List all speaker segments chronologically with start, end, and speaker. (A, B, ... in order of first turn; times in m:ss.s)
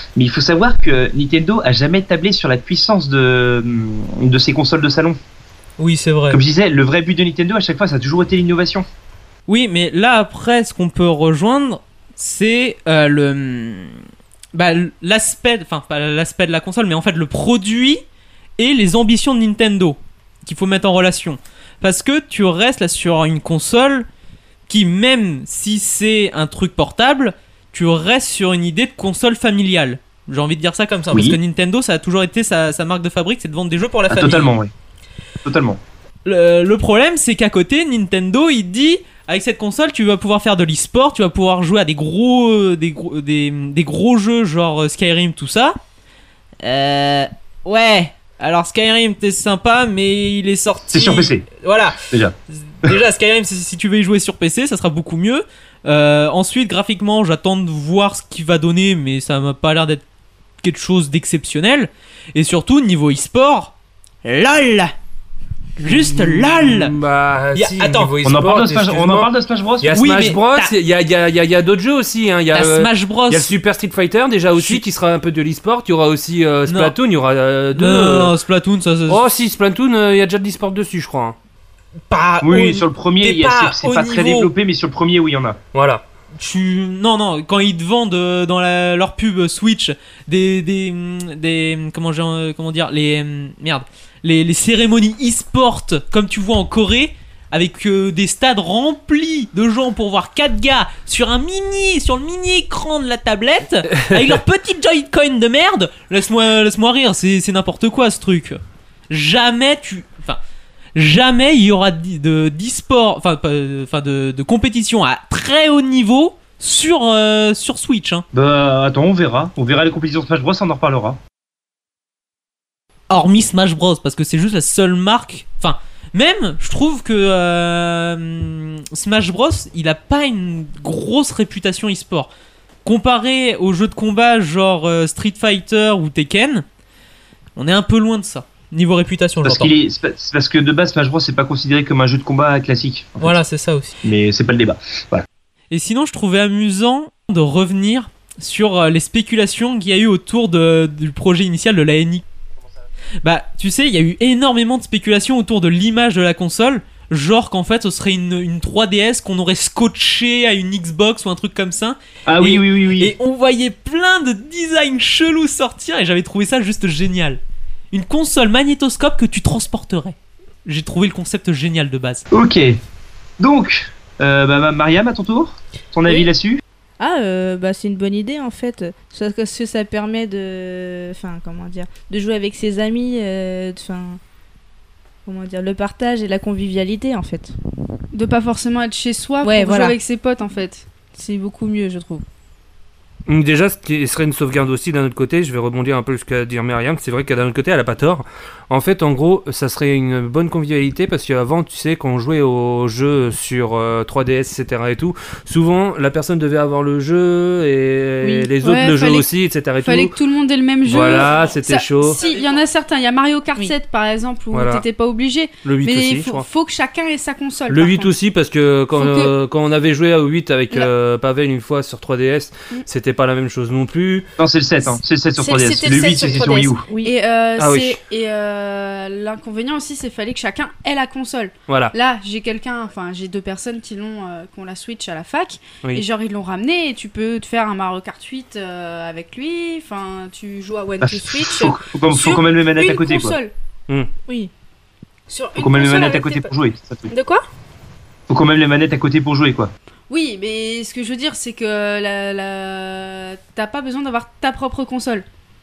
0:00.2-0:05.2 A
0:05.8-0:06.4 B
0:06.3-0:08.9 A
0:09.5-0:14.0 B
0:14.5-0:18.0 B
0:18.6-0:24.1 B
0:24.7-0:34.5 B
0:31.1-0:31.4 A
0:34.1-0:34.7 A
0:35.4-0:35.8 A
0:36.2-0:45.8 B
0:46.6-0:52.0 B
0:50.9-0:51.5 A
0:52.5-1:00.0 B
1:00.6-1:03.7 B
1:04.2-1:04.9 B
1:05.8-1:06.9 B
1:05.8-1:18.4 C
1:07.6-1:08.1 B
1:08.2-1:10.0 A
1:09.9-1:10.7 B
1:12.5-1:13.5 B
1:16.7-1:16.9 B
1:17.8-1:19.2 B
1:19.1-1:21.4 C
1:22.1-1:24.5 B
1:22.4-1:25.6 A
1:25.7-1:26.0 C
1:26.4-1:50.4 B
1:51.0-1:58.2 B
1:58.3-2:01.2 A
2:03.1-2:12.3 B
2:12.8-2:16.6 B
2:17.6-2:19.7 B
2:19.4-2:23.4 A
2:23.2-2:24.0 B
2:24.0-2:25.3 A
2:25.7-2:32.2 B
2:33.2-2:47.4 B
2:42.3-2:43.1 A
2:47.9-2:52.3 B
2:52.3-2:52.8 A
2:53.4-2:56.6 A
2:57.0-3:04.2 D
3:05.2-3:07.5 D
3:08.1-3:10.9 E
3:09.4-3:10.0 D
3:11.1-3:12.2 D
3:13.3-3:30.1 C
3:28.2-3:28.5 D
3:28.6-3:29.3 E
3:29.8-3:38.1 E
3:30.8-3:32.2 C
3:34.5-3:34.8 C
3:35.6-3:36.5 C
3:37.7-3:44.3 C
3:38.9-3:39.3 E
3:44.4-3:46.9 A
3:45.4-4:03.5 E
3:46.9-3:47.1 D
3:47.6-3:48.0 C
3:51.7-3:52.0 C
4:01.0-4:03.4 A
4:05.3-4:06.5 E
4:05.6-4:07.1 A
4:07.1-4:07.4 E
4:08.3-4:09.7 A
4:10.1-4:15.2 E